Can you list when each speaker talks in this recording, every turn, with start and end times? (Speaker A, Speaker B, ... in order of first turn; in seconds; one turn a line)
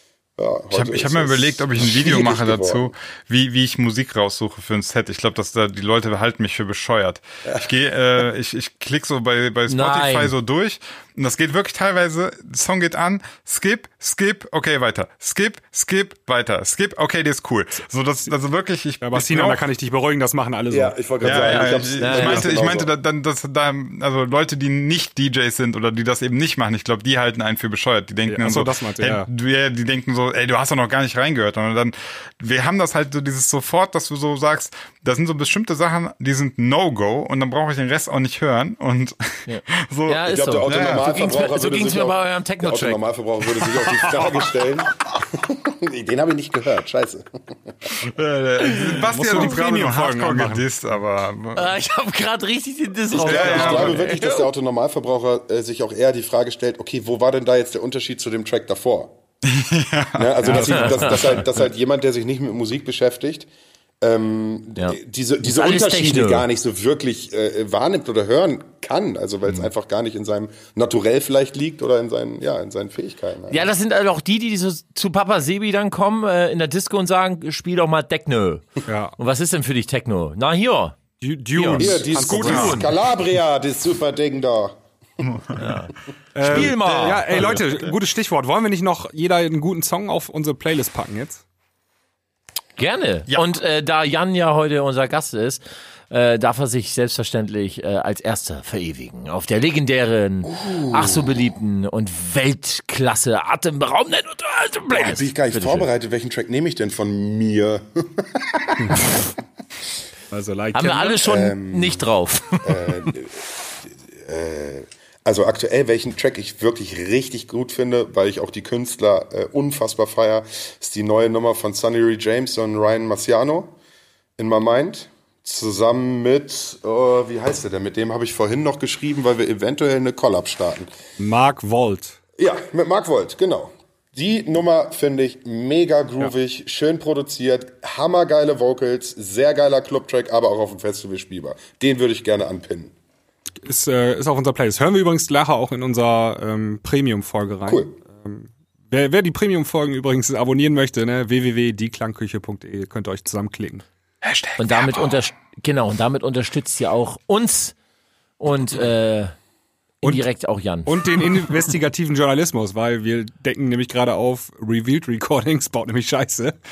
Speaker A: 0.4-2.9
Speaker B: 0.7-19.7
Speaker C: 9.7-10.3
Speaker D: 19.0-21.0
Speaker A: 20.7-22.9
Speaker B: 21.2-41.2
Speaker C: 21.3-22.5
Speaker D: 28.3-29.3
Speaker C: 39.5-43.0
Speaker A: 40.2-47.9
Speaker D: 43.8-44.5
Speaker B: 48.0-51.8
Speaker C: 48.7-49.5
Speaker D: 49.0-50.6
Speaker C: 51.5-54.5
Speaker A: 53.1-59.1
Speaker B: 53.2-54.0
Speaker B: 59.5-61.3
Speaker A: 60.1-63.5
Speaker C: 60.5-61.4
Speaker A: 64.0-73.7
Speaker C: 64.8-66.5
Speaker C: 73.5-78.7
Speaker D: 78.9-79.2
Speaker C: 79.2-81.0
Speaker D: 81.2-82.9
Speaker C: 81.5-82.9
Speaker A: 81.8-84.8
Speaker B: 82.3-82.9
Speaker B: 85.2-85.7
Speaker C: 85.6-87.6
Speaker D: 86.3-91.4
Speaker B: 86.5-87.9
Speaker C: 92.8-105.9
Speaker A: 100.5-101.3
Speaker A: 104.9-109.0
Speaker D: 110.3-111.2
Speaker C: 110.8-112.9
Speaker A: 111.2-112.1
Speaker A: 112.6-123.8
Speaker A: 124.4-130.9
Speaker D: 131.2-132.2
Speaker A: 132.4-142.9
Speaker D: 143.6-153.8
Speaker A: 147.7-147.9
Speaker B: 154.2-155.2
Speaker C: 154.6-157.8
Speaker C: 158.4-159.3
Speaker C: 160.0-161.2
Speaker D: 160.9-166.6